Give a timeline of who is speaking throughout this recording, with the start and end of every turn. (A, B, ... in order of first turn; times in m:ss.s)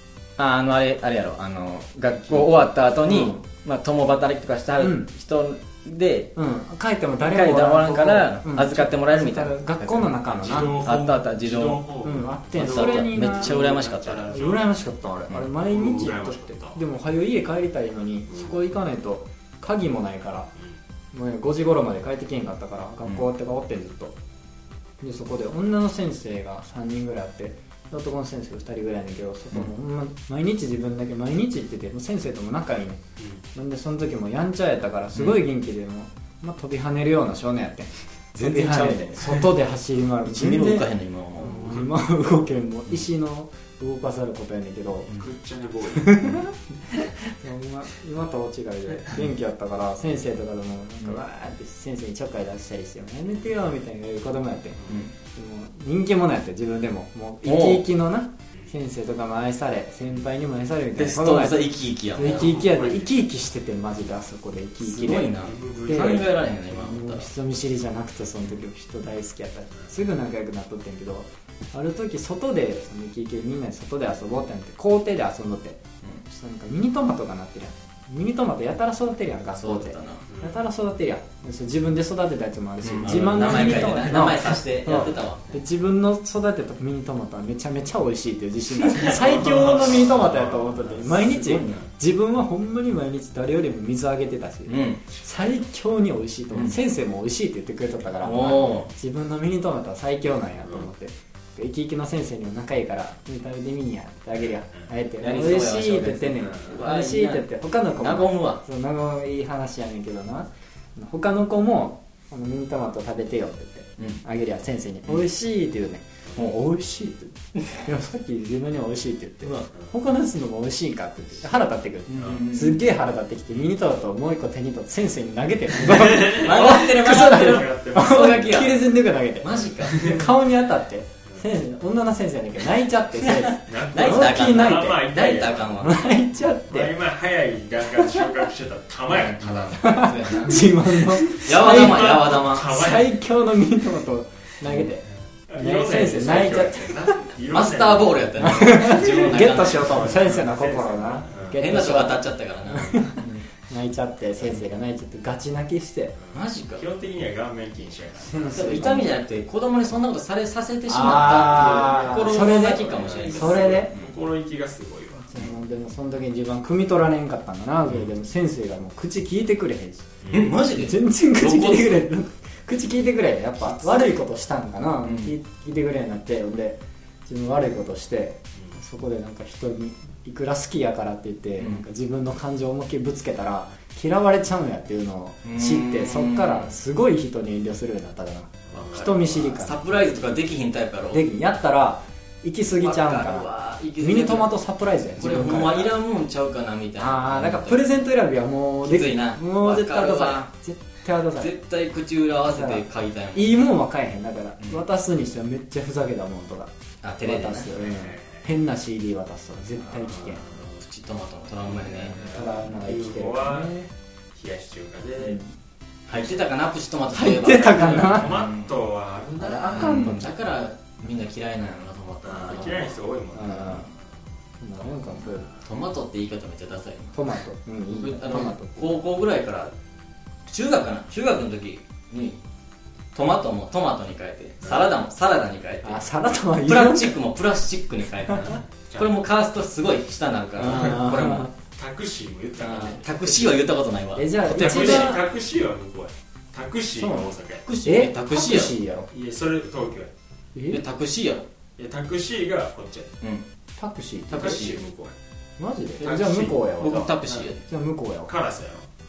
0:00.4-0:06.3 A
0:02.2-0:03.4 B
0:04.8-0:05.1 B
0:06.4-0:10.8 B
0:07.2-0:11.8 A
0:10.3-0:14.7 C
0:12.0-0:20.5 B
0:12.6-0:14.3 A
0:15.6-0:16.8 C
0:18.3-0:18.5 C
0:21.1-0:24.2 B
0:25.0-0:33.0 B
0:33.2-0:33.4 C
0:33.5-0:45.1 B
0:35.1-0:35.4 A
0:38.3-0:39.5 A
0:40.2-0:41.8 A
0:41.4-0:42.0 C
0:45.1-0:46.4 C
0:46.0-0:54.8 B
0:54.8-0:55.1 C
0:55.3-1:05.3 B
0:57.4-0:57.8 A
1:00.9-1:02.6 A
1:02.2-1:03.1 C
1:04.8-1:07.3 A
1:05.4-1:06.4 C
1:05.8-2:15.0 B
1:19.6-1:20.2 A
1:20.3-1:20.6 C
1:22.8-1:25.5 A
1:22.8-1:24.1 C
1:28.9-1:31.9 C
1:34.7-1:35.0 A
1:35.1-1:35.6 C
1:36.5-1:36.8 A
1:38.2-1:38.9 A
1:44.4-1:44.9 C
1:45.2-1:48.6 A
1:46.4-1:46.8 C
1:59.4-1:59.7 A
2:02.1-2:02.9 A
2:02.1-2:02.5 C
2:05.8-2:08.6 C
2:06.1-2:10.2 A
2:09.8-2:10.2 C
2:13.3-2:16.0 A
2:13.5-2:23.2 C
2:15.8-2:16.9 B
2:19.1-2:22.8 A
2:19.8-2:27.2 B
2:25.5-2:31.6 C
2:27.5-2:30.2 A
2:28.4-2:36.1 B
2:31.5-2:33.4 A
2:36.2-2:38.9 C
2:36.3-2:36.8 A
2:38.3-2:39.1 B
2:38.5-2:44.1 A
2:40.9-2:43.9 B
2:41.0-2:45.4 C
2:45.2-2:50.2 B
2:50.2-2:50.6 C
2:50.3-2:52.0 A
2:50.7-3:10.0 B
2:53.7-2:54.0 A
2:55.0-2:55.3 A
3:01.6-3:01.8 A
3:05.4-3:06.7 A
3:08.7-3:09.3 C
3:08.8-3:11.2 A
3:11.1-3:15.9 B
3:12.8-3:14.5 A
3:15.2-3:17.9 A
3:15.3-3:15.7 C
3:17.0-3:21.5 B
3:18.8-3:20.5 A
3:21.4-3:23.6 A
3:22.5-3:30.4 B
3:27.0-3:27.7 A
3:27.7-3:28.5 C
3:30.0-3:30.7 C
3:30.6-3:32.2 A
3:31.6-3:33.8 C
3:32.1-3:33.9 B
3:34.3-3:35.4 C
3:35.2-3:35.5 B
3:36.1-3:38.7 A
3:37.1-3:38.4 B
3:37.6-3:40.1 C
3:39.4-3:40.3 B
3:39.7-3:42.9 A
3:42.2-3:44.1 C
3:43.3-3:43.9 B
3:44.6-3:45.5 B
3:44.8-3:45.6 C
3:45.6-3:47.2 A
3:47.1-3:49.0 B
3:47.9-3:49.7 A
3:50.4-3:52.4 A
3:53.1-3:56.0 A
3:54.6-3:54.9 C
3:55.8-3:57.2 B
3:56.6-4:01.5 A
3:58.3-3:59.2 C
4:00.6-4:01.5 B
4:00.6-4:03.6 C
4:02.6-4:03.0 B
4:02.7-4:05.2 A
4:04.2-4:05.2 B
4:04.5-4:07.7 C
4:07.0-4:07.3 B
4:07.6-4:08.8 A
4:07.8-4:09.1 B
4:09.1-4:10.1 C
4:10.5-4:10.8 B
4:10.7-4:11.5 A
4:11.8-4:13.2 C
4:13.2-4:13.4 A
4:13.8-4:14.7 B
4:14.3-4:14.8 A
4:14.3-4:15.2 C
4:15.6-4:18.3 B
4:16.0-4:17.5 C
4:16.0-4:17.6 A
4:18.2-4:18.9 C